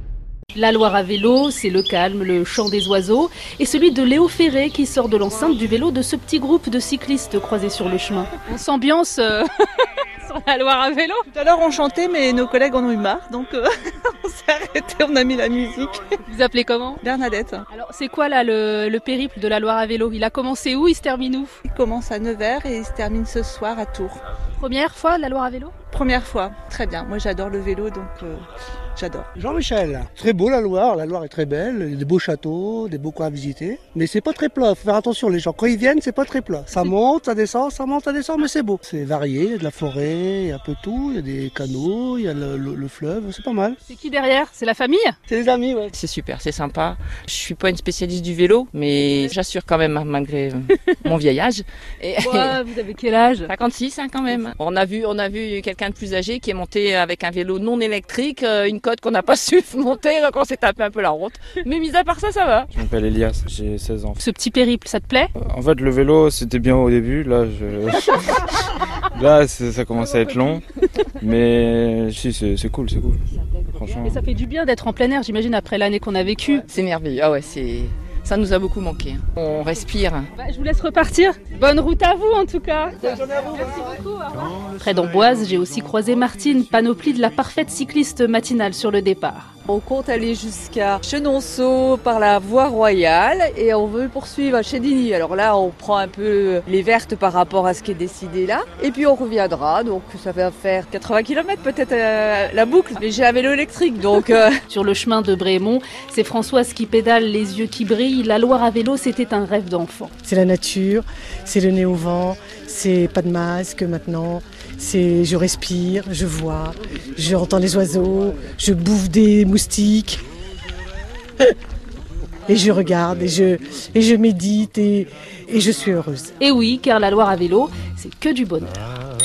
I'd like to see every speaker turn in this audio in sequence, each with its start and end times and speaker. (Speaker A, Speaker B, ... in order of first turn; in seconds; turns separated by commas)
Speaker A: 0.5-9.5, Speaker A: 10.2-11.2, Speaker B: 11.3-16.1, Speaker A: 16.3-17.0, Speaker B: 17.0-17.6, Speaker A: 17.7-21.6, Speaker B: 21.7-24.2, Speaker A: 24.6-25.7, Speaker B: 25.9-28.4, Speaker B: 29.0-29.3, Speaker C: 29.4-43.8, Speaker A: 43.9-45.1, Speaker C: 45.3-45.9, Speaker D: 46.0-52.6, Speaker A: 52.2-53.5, Speaker D: 53.5-62.7, Speaker E: 62.7-64.2, Speaker A: 64.2-65.3, Speaker E: 65.4-68.5, Speaker E: 69.1-70.6, Speaker A: 70.0-71.0, Speaker E: 71.2-73.2, Speaker E: 73.7-74.2, Speaker A: 74.0-76.7, Speaker D: 76.7-80.3, Speaker A: 80.4-89.5, Speaker F: 89.7-104.5, Speaker A: 104.7-110.1, Speaker G: 110.2-120.2, Speaker G: 122.5-126.3, Speaker A: 126.4-128.8